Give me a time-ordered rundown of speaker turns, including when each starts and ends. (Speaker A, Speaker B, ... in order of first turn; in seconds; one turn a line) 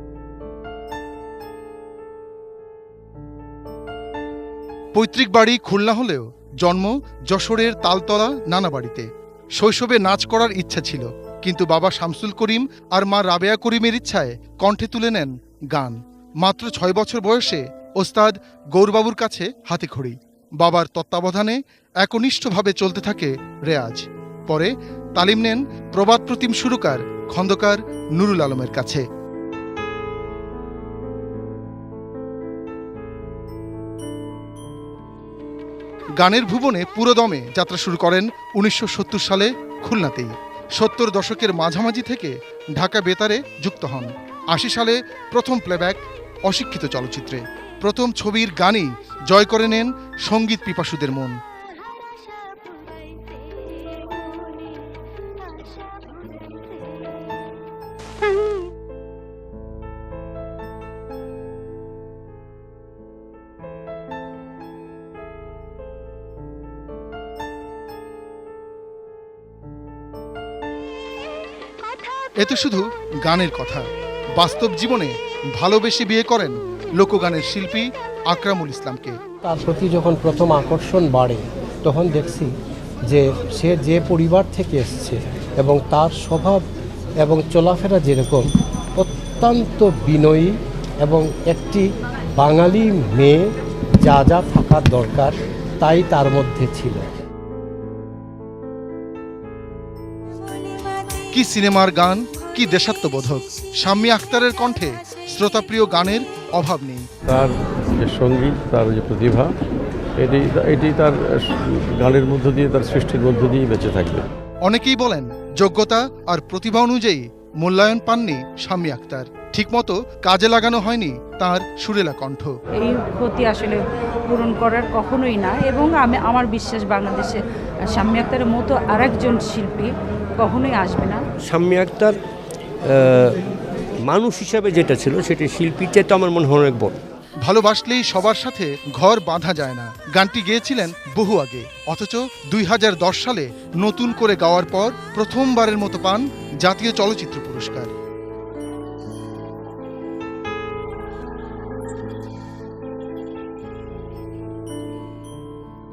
Speaker A: 5.0-9.1
Speaker A: 9.6-29.0
Speaker A: 36.2-51.4
Speaker A: 72.4-73.9
Speaker A: 74.4-79.2
Speaker B: 79.5-82.5
Speaker B: 83.1-86.6
Speaker B: 87.2-91.9
Speaker B: 92.4-97.1
Speaker A: 101.3-107.0
Speaker C: 107.3-109.5
Speaker C: 110.2-114.3
Speaker A: 114.7-122.5
Speaker D: 122.8-131.2
Speaker E: 131.4-132.2
Speaker E: 132.8-133.4
Speaker E: 134.0-136.9
Speaker A: 137.4-147.9